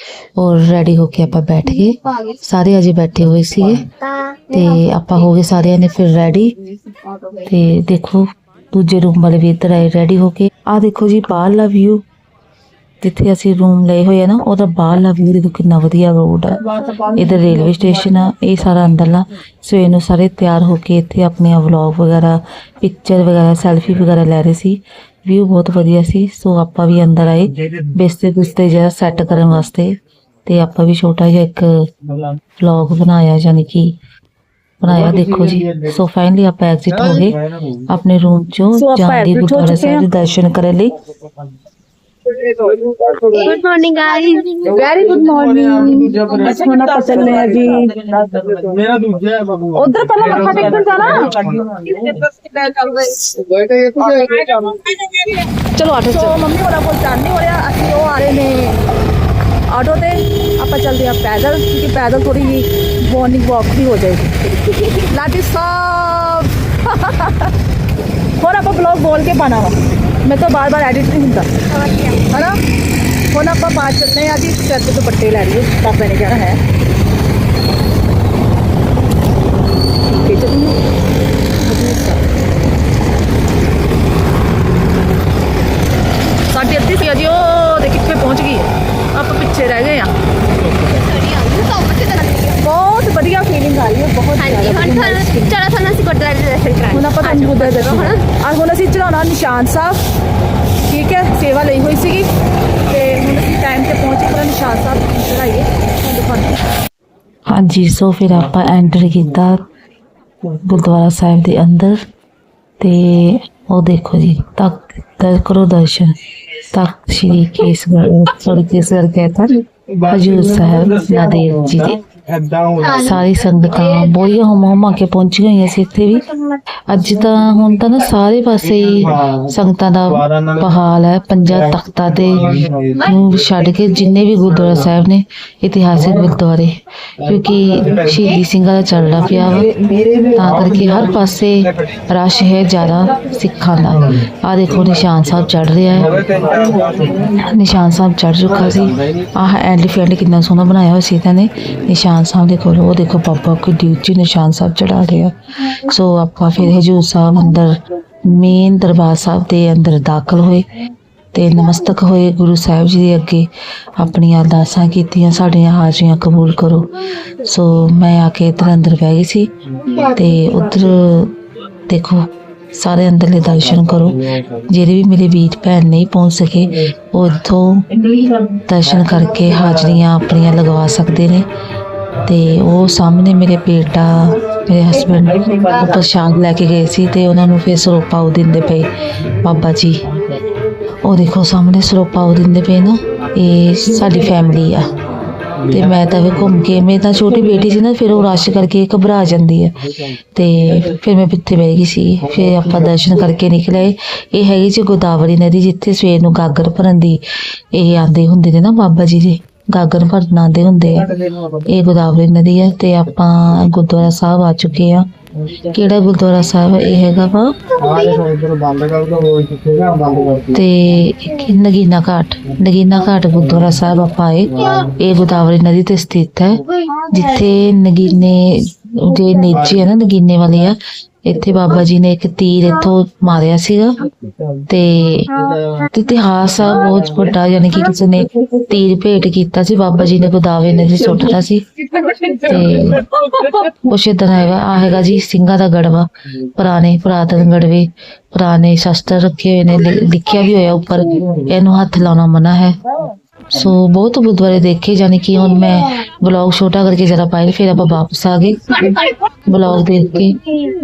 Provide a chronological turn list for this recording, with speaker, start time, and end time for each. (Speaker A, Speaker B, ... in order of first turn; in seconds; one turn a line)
Speaker A: 0.3-3.9
Speaker A: 4.5-6.5
Speaker A: 7.4-12.0
Speaker A: 13.0-31.7
Speaker A: 32.6-34.0
Speaker A: 34.8-37.4
Speaker B: 35.1-35.8
Speaker B: 37.1-37.8
Speaker A: 37.9-41.0
Speaker C: 38.7-40.0
Speaker C: 43.3-48.3
Speaker D: 43.4-44.9
Speaker B: 44.9-47.6
Speaker D: 46.7-47.2
Speaker B: 48.1-51.8
Speaker C: 49.7-51.4
Speaker C: 51.9-53.3
Speaker B: 53.5-54.5
Speaker C: 54.0-55.2
Speaker C: 55.8-58.8
Speaker C: 59.7-67.5
Speaker C: 68.4-71.5
Speaker D: 71.7-72.2
Speaker C: 72.3-72.6
Speaker C: 73.3-76.6
Speaker C: 80.2-80.8
Speaker C: 81.6-82.2
Speaker C: 86.5-90.1
Speaker D: 91.0-92.6
Speaker C: 92.6-95.5
Speaker D: 94.3-98.2
Speaker C: 96.9-100.0
Speaker C: 100.8-102.3
Speaker C: 102.9-106.5
Speaker A: 107.5-109.6
Speaker A: 110.6-112.0
Speaker A: 112.8-122.0
Speaker B: 122.2-123.1
Speaker A: 122.9-126.3
Speaker A: 126.9-139.7
Speaker B: 129.0-129.3
Speaker B: 130.2-130.5
Speaker B: 132.4-133.0
Speaker A: 140.3-146.2
Speaker B: 146.1-147.2
Speaker A: 147.2-160.7
Speaker A: 161.3-169.5
Speaker A: 170.0-171.3
Speaker A: 171.9-177.8
Speaker A: 178.7-181.5
Speaker A: 182.2-190.0
Speaker A: 191.0-194.9
Speaker A: 195.7-199.8
Speaker A: 200.3-207.2
Speaker A: 207.7-211.1
Speaker A: 211.6-215.0
Speaker A: 215.6-217.5
Speaker B: 217.8-220.5
Speaker A: 220.5-234.0
Speaker A: 234.7-235.3
Speaker A: 235.8-241.7
Speaker A: 242.2-252.8
Speaker A: 253.5-258.8
Speaker A: 259.4-260.4